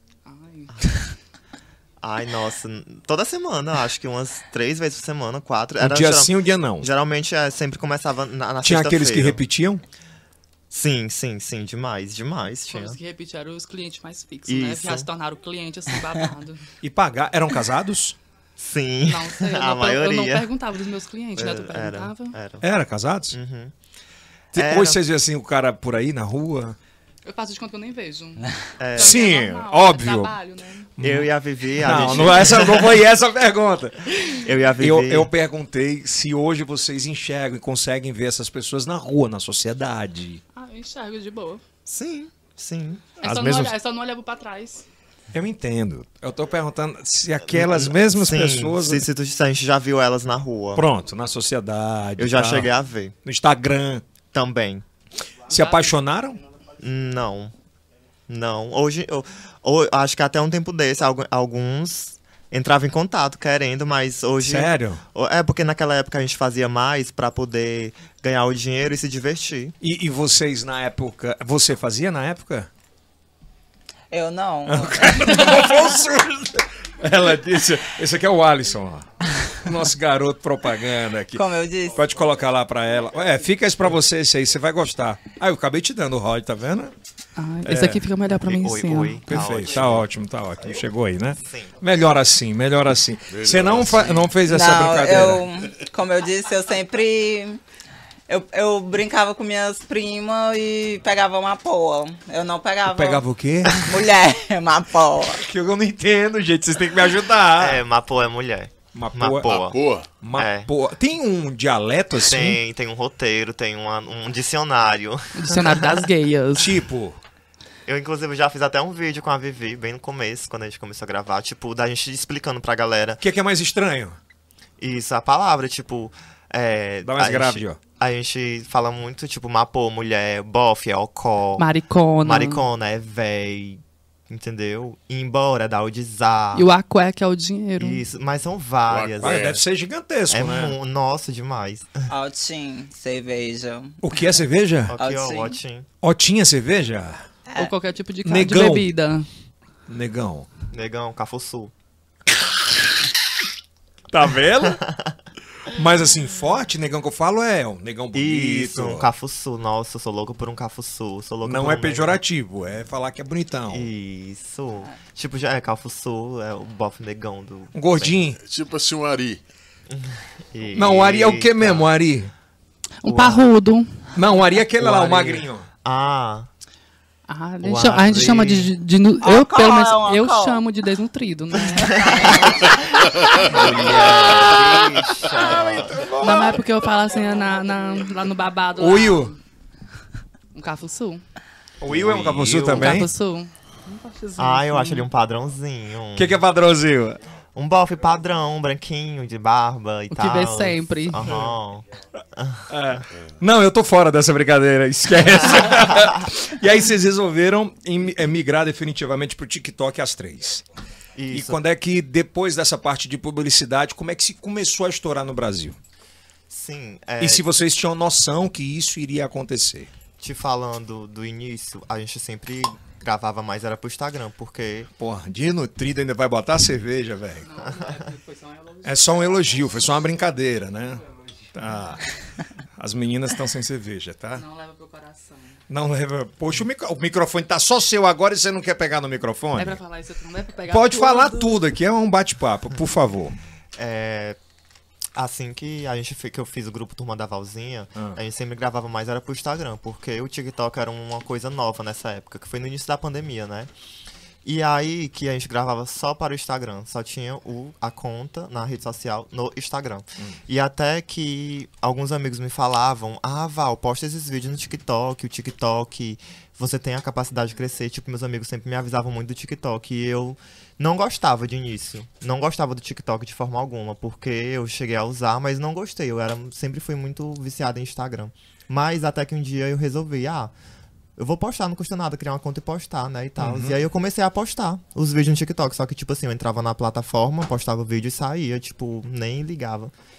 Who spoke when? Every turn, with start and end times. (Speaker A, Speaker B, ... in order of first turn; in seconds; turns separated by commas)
Speaker A: 0.2-1.1, Speaker B: 2.0-9.4, Speaker C: 5.8-6.9, Speaker C: 8.6-9.8, Speaker B: 10.7-13.0, Speaker A: 12.7-16.6, Speaker B: 14.5-15.1, Speaker C: 16.8-18.2, Speaker B: 18.6-20.5, Speaker A: 19.1-22.4, Speaker B: 21.3-22.6, Speaker C: 22.6-23.4, Speaker B: 23.3-23.7, Speaker B: 24.5-25.0, Speaker C: 24.5-26.8, Speaker A: 27.2-30.9, Speaker B: 28.8-29.2, Speaker C: 29.0-30.4, Speaker C: 31.0-40.4, Speaker B: 31.0-33.0, Speaker B: 34.3-35.3, Speaker A: 40.5-41.6, Speaker B: 41.9-43.1, Speaker A: 43.2-44.8, Speaker C: 43.2-43.7, Speaker C: 45.3-49.0, Speaker B: 47.5-50.8, Speaker C: 50.7-52.7, Speaker B: 52.2-53.1, Speaker C: 53.2-54.0, Speaker B: 54.3-54.8, Speaker C: 55.5-56.4, Speaker A: 55.5-55.9, Speaker B: 56.8-57.5, Speaker B: 58.3-69.8, Speaker C: 64.4-65.0, Speaker C: 69.8-72.7, Speaker D: 74.1-75.8, Speaker C: 74.7-86.9, Speaker D: 81.3-82.0, Speaker A: 87.3-89.2, Speaker C: 87.6-88.0, Speaker B: 88.4-90.1, Speaker C: 89.3-95.4, Speaker B: 91.4-91.7, Speaker E: 93.3-94.3, Speaker D: 94.5-97.6, Speaker D: 98.3-105.4, Speaker C: 102.8-103.9, Speaker C: 105.3-107.8, Speaker B: 107.6-109.8, Speaker C: 108.9-109.5, Speaker E: 109.5-110.1, Speaker C: 110.2-112.6, Speaker B: 110.3-110.7, Speaker B: 112.2-116.1, Speaker A: 115.3-116.8, Speaker C: 116.5-117.2, Speaker B: 117.8-123.2, Speaker C: 123.2-124.2, Speaker B: 124.8-131.7, Speaker C: 127.0-127.8, Speaker A: 131.6-132.6, Speaker B: 132.2-136.7, Speaker A: 136.5-138.0, Speaker B: 137.8-139.6, Speaker E: 138.9-139.6, Speaker C: 139.2-140.8, Speaker B: 140.3-142.1, Speaker D: 142.1-144.0, Speaker C: 144.0-144.9, Speaker B: 144.9-145.9, Speaker D: 145.0-145.6, Speaker C: 146.0-147.2, Speaker A: 147.6-149.3, Speaker C: 148.2-148.9, Speaker C: 149.9-150.5, Speaker B: 150.7-151.7, Speaker C: 154.1-154.8, Speaker B: 154.7-155.1, Speaker C: 155.7-159.1, Speaker B: 158.1-162.2, Speaker C: 161.4-163.9, Speaker B: 163.7-168.2, Speaker C: 167.7-168.4, Speaker E: 168.4-169.4, Speaker B: 169.9-171.9, Speaker C: 170.7-172.3, Speaker A: 173.0-174.0, Speaker B: 173.0-173.5, Speaker C: 174.1-175.7, Speaker B: 174.8-176.5, Speaker A: 177.3-182.4, Speaker B: 177.6-178.7, Speaker D: 179.2-180.6, Speaker D: 181.8-185.7, Speaker B: 181.9-186.0, Speaker C: 185.4-186.6, Speaker A: 186.1-189.4, Speaker C: 188.8-189.3, Speaker A: 190.5-191.2, Speaker C: 191.8-193.1, Speaker B: 191.9-193.0, Speaker A: 192.7-195.1, Speaker B: 194.3-196.4, Speaker C: 196.1-197.2, Speaker B: 197.5-203.0, Speaker A: 200.1-201.4, Speaker C: 202.7-210.6, Speaker B: 211.2-211.6, Speaker C: 211.3-215.8, Speaker B: 216.5-217.4, Speaker C: 217.2-219.9, Speaker B: 220.2-224.9, Speaker C: 225.0-227.5, Speaker A: 227.4-229.6, Speaker B: 227.7-228.0, Speaker C: 228.8-231.0, Speaker C: 231.5-232.1, Speaker C: 232.8-234.4, Speaker A: 234.3-235.6, Speaker C: 235.7-239.8, Speaker A: 239.6-241.6, Speaker C: 240.7-243.3, Speaker B: 243.8-244.4, Speaker B: 245.1-253.7, Speaker B: 254.4-280.5, Speaker B: 281.2-289.9, Speaker C: 283.4-283.8